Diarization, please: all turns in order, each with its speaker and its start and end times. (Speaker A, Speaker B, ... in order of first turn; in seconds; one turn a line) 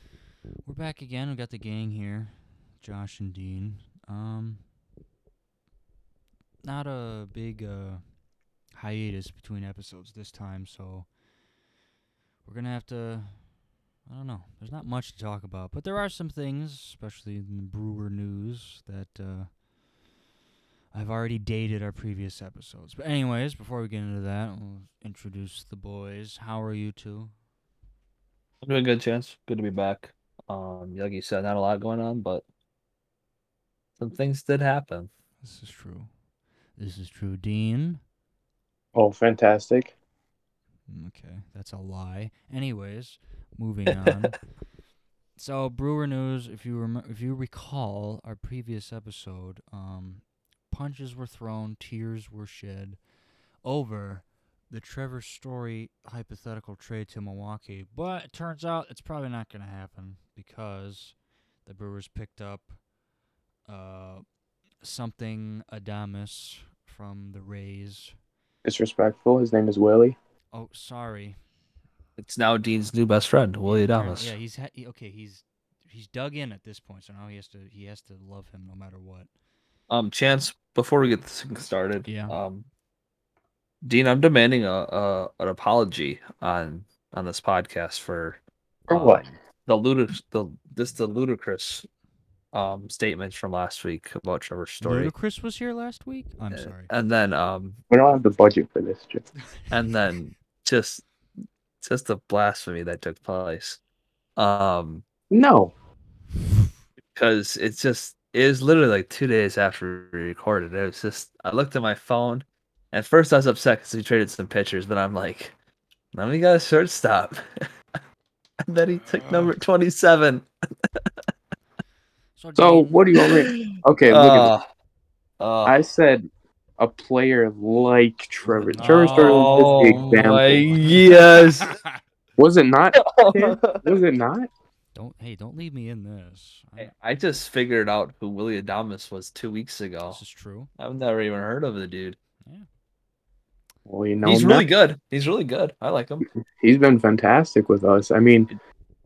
Speaker A: 0.6-4.7
Speaker A: 6.6-11.1
Speaker A: 12.4-19.6
Speaker A: 20.9-27.3
Speaker B: 28.6-32.4
Speaker B: 34.0-35.1
Speaker A: 35.4-36.1
Speaker A: 36.7-38.0
Speaker C: 38.9-39.9
Speaker A: 40.9-44.5
Speaker A: 45.4-53.0
Speaker A: 53.6-62.8
Speaker A: 63.7-64.2
Speaker A: 64.8-68.2
Speaker C: 68.6-70.2
Speaker A: 70.5-71.4
Speaker B: 72.2-74.3
Speaker A: 73.7-79.3
Speaker B: 79.9-82.7
Speaker A: 82.0-82.4
Speaker B: 83.8-88.4
Speaker C: 88.9-89.3
Speaker B: 88.9-91.9
Speaker B: 92.5-95.1
Speaker A: 94.8-96.9
Speaker B: 96.5-97.8
Speaker C: 97.9-99.3
Speaker B: 99.7-101.0
Speaker B: 101.8-103.8
Speaker B: 104.4-105.0
Speaker C: 105.3-105.7
Speaker B: 107.1-115.5
Speaker B: 116.1-117.7
Speaker B: 118.7-120.5
Speaker A: 119.1-119.5
Speaker A: 122.4-123.0
Speaker C: 122.6-124.5
Speaker B: 123.1-124.6
Speaker B: 125.4-125.8
Speaker C: 125.7-126.3
Speaker C: 126.8-130.8
Speaker A: 128.4-132.0
Speaker B: 128.8-131.7
Speaker C: 132.4-134.5
Speaker B: 133.0-134.0
Speaker A: 134.9-136.9
Speaker B: 136.8-140.2
Speaker A: 140.1-140.7
Speaker B: 140.8-142.2
Speaker C: 143.8-144.7
Speaker B: 144.2-146.3
Speaker C: 146.6-148.5